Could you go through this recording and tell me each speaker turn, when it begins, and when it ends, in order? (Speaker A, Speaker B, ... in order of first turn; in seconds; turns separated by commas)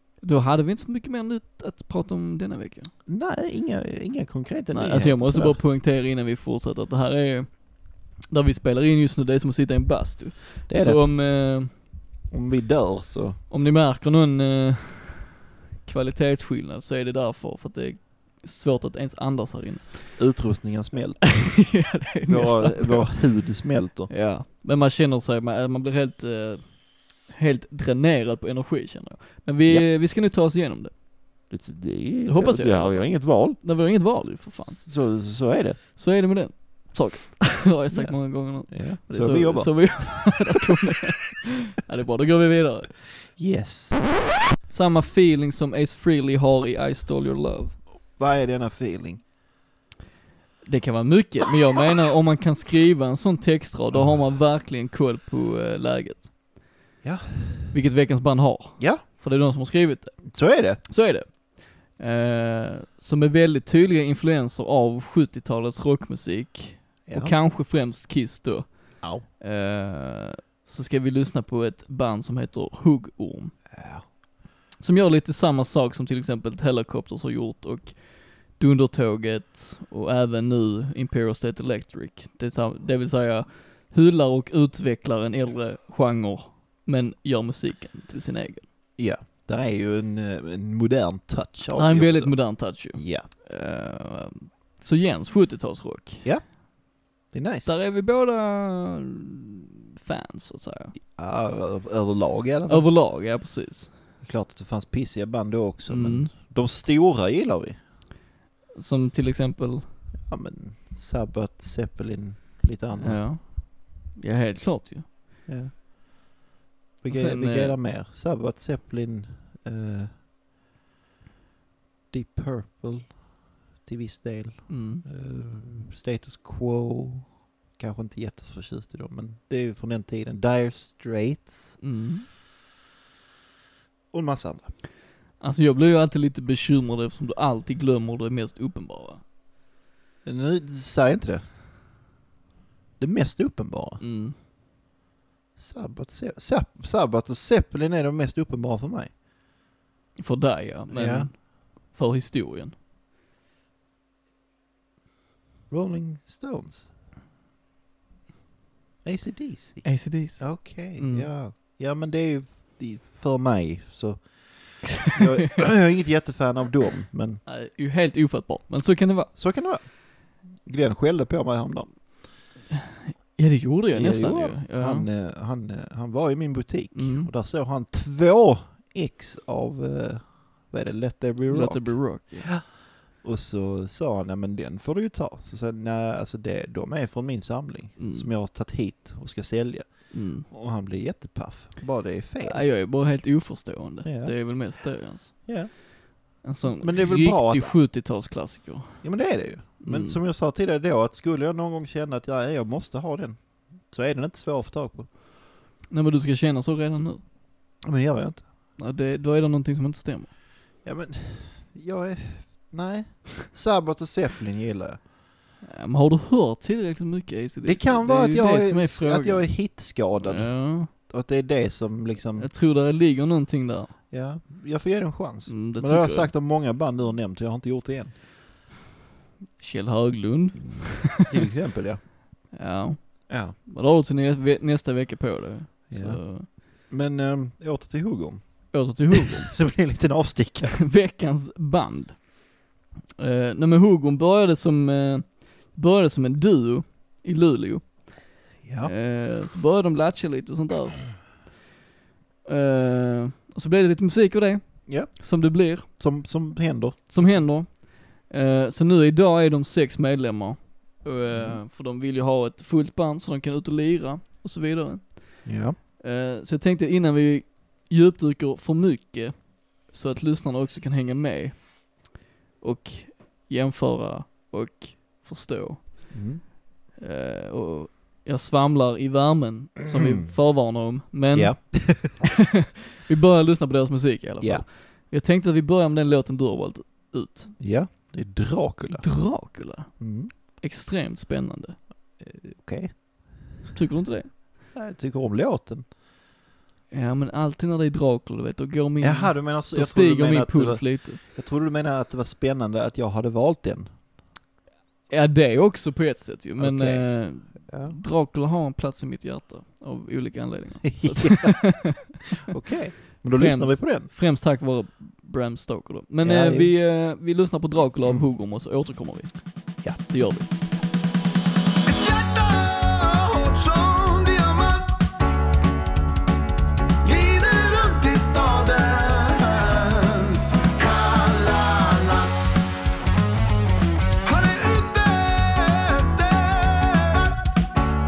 Speaker A: 0.2-2.9, Speaker B: 3.1-5.6, Speaker A: 4.7-11.8, Speaker B: 10.7-11.2, Speaker B: 12.3-13.4, Speaker A: 13.5-20.4, Speaker B: 20.2-24.1, Speaker A: 21.3-23.3, Speaker A: 24.1-30.9, Speaker B: 31.5-33.6, Speaker A: 32.3-34.9, Speaker B: 34.8-35.8, Speaker A: 35.9-43.1, Speaker B: 37.9-40.5, Speaker B: 43.3-44.2, Speaker A: 44.7-47.8, Speaker B: 48.2-49.2, Speaker A: 50.7-56.3, Speaker B: 57.0-57.7, Speaker A: 57.7-73.5, Speaker B: 60.3-60.8, Speaker B: 67.1-67.3, Speaker B: 73.7-74.0, Speaker A: 74.8-88.7, Speaker B: 89.0-93.3, Speaker A: 91.8-96.3, Speaker B: 96.2-97.7, Speaker A: 97.7-100.9, Speaker B: 101.0-102.9, Speaker A: 102.7-103.9, Speaker B: 104.2-107.8, Speaker A: 105.9-106.3, Speaker A: 108.8-109.9, Speaker B: 110.3-113.2, Speaker A: 113.0-115.1, Speaker B: 115.5-115.7, Speaker B: 117.0-120.2, Speaker A: 117.1-117.8, Speaker B: 122.1-131.8, Speaker A: 124.7-125.0, Speaker A: 131.8-132.3, Speaker B: 134.1-134.7, Speaker A: 135.4-139.2, Speaker B: 140.2-141.4, Speaker B: 143.0-144.0, Speaker A: 144.0-144.4, Speaker B: 145.6-149.1, Speaker A: 150.2-152.8, Speaker B: 150.9-151.3, Speaker B: 155.7-156.8, Speaker B: 159.0-167.4, Speaker A: 159.8-161.3, Speaker A: 167.5-169.3, Speaker B: 169.3-172.1, Speaker A: 173.1-175.1, Speaker B: 173.9-192.7, Speaker A: 176.9-177.3, Speaker A: 181.5-182.5, Speaker A: 188.0-188.3, Speaker A: 190.1-190.5, Speaker A: 192.4-195.8, Speaker B: 194.0-194.6, Speaker B: 195.4-195.8, Speaker B: 196.3-197.8, Speaker A: 196.4-200.2, Speaker B: 199.0-205.1, Speaker A: 205.9-207.2, Speaker B: 207.8-208.5, Speaker A: 208.8-210.3, Speaker B: 210.8-215.0, Speaker A: 215.7-220.9, Speaker B: 217.7-222.5, Speaker A: 222.4-224.0, Speaker B: 224.1-228.2, Speaker A: 225.5-226.3, Speaker A: 229.6-231.3, Speaker B: 230.6-232.1, Speaker A: 232.5-236.5, Speaker B: 233.3-233.6, Speaker B: 235.9-240.8, Speaker A: 238.7-239.7, Speaker A: 240.8-242.5, Speaker A: 243.2-251.3, Speaker B: 248.6-248.9, Speaker A: 252.4-255.9, Speaker B: 254.9-257.5, Speaker A: 257.1-276.3, Speaker B: 261.3-261.6, Speaker B: 265.4-265.8, Speaker B: 276.1-276.4, Speaker A: 277.0-282.3, Speaker B: 279.9-280.3, Speaker B: 281.3-282.3, Speaker A: 283.0-287.6, Speaker B: 287.6-289.4, Speaker A: 288.9-291.8, Speaker B: 290.0-290.3, Speaker B: 292.2-293.5, Speaker A: 293.7-294.4, Speaker B: 294.7-295.9, Speaker A: 296.9-301.2, Speaker B: 299.0-304.0, Speaker A: 305.1-312.1, Speaker B: 306.6-308.0, Speaker B: 310.8-314.1, Speaker A: 313.3-320.5, Speaker B: 316.2-316.8, Speaker C: 321.9-325.1, Speaker C: 327.0-332.6, Speaker C: 334.2-337.4